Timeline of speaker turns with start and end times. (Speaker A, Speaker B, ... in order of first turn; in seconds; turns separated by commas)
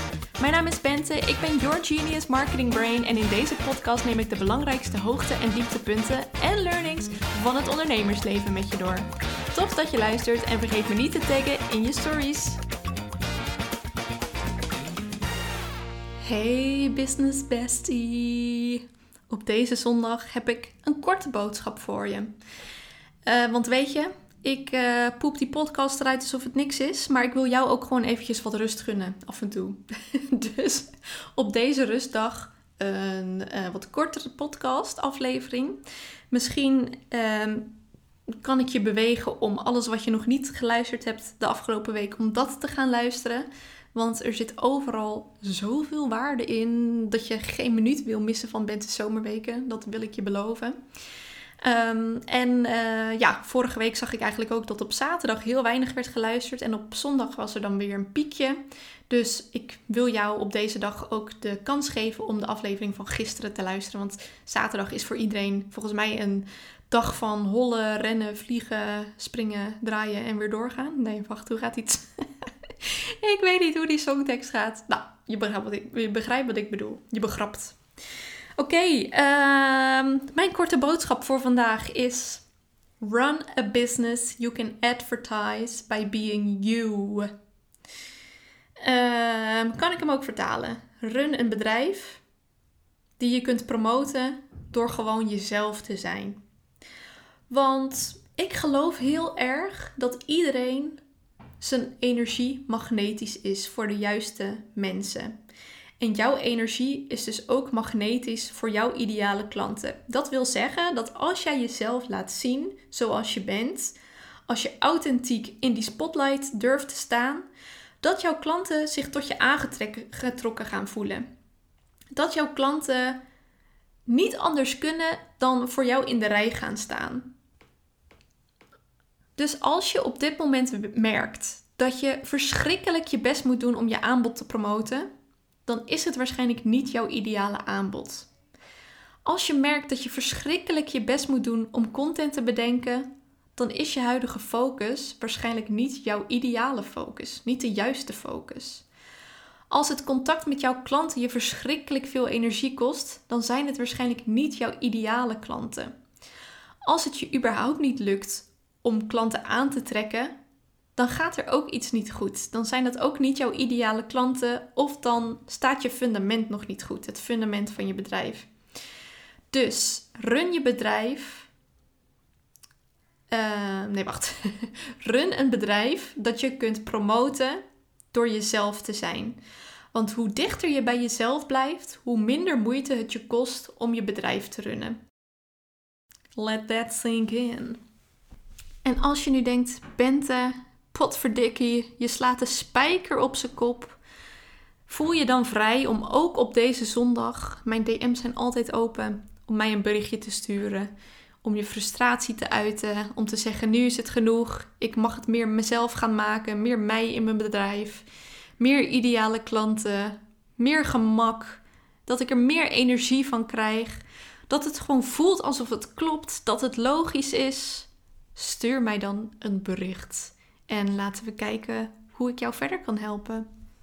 Speaker A: 0.4-12.6, Speaker A: 16.2-22.3, Speaker A: 23.2-37.7, Speaker A: 38.4-50.8, Speaker A: 51.6-58.6, Speaker A: 59.1-72.1, Speaker A: 72.8-77.8, Speaker A: 78.6-82.4, Speaker A: 83.0-87.3, Speaker A: 88.8-92.2, Speaker A: 93.2-96.4, Speaker A: 97.5-101.0, Speaker A: 101.6-105.3, Speaker A: 106.0-114.0, Speaker A: 114.5-117.5, Speaker A: 118.0-121.3, Speaker A: 122.1-123.2, Speaker A: 124.1-127.3, Speaker A: 129.4-135.1, Speaker A: 135.7-138.3, Speaker A: 139.2-148.8, Speaker A: 149.7-155.9, Speaker A: 156.8-160.3, Speaker A: 161.0-168.5, Speaker A: 169.5-171.5, Speaker A: 173.3-179.4, Speaker A: 179.9-185.0, Speaker A: 186.3-187.8, Speaker A: 188.8-194.0, Speaker A: 194.9-200.9, Speaker A: 201.4-208.1, Speaker A: 208.6-223.5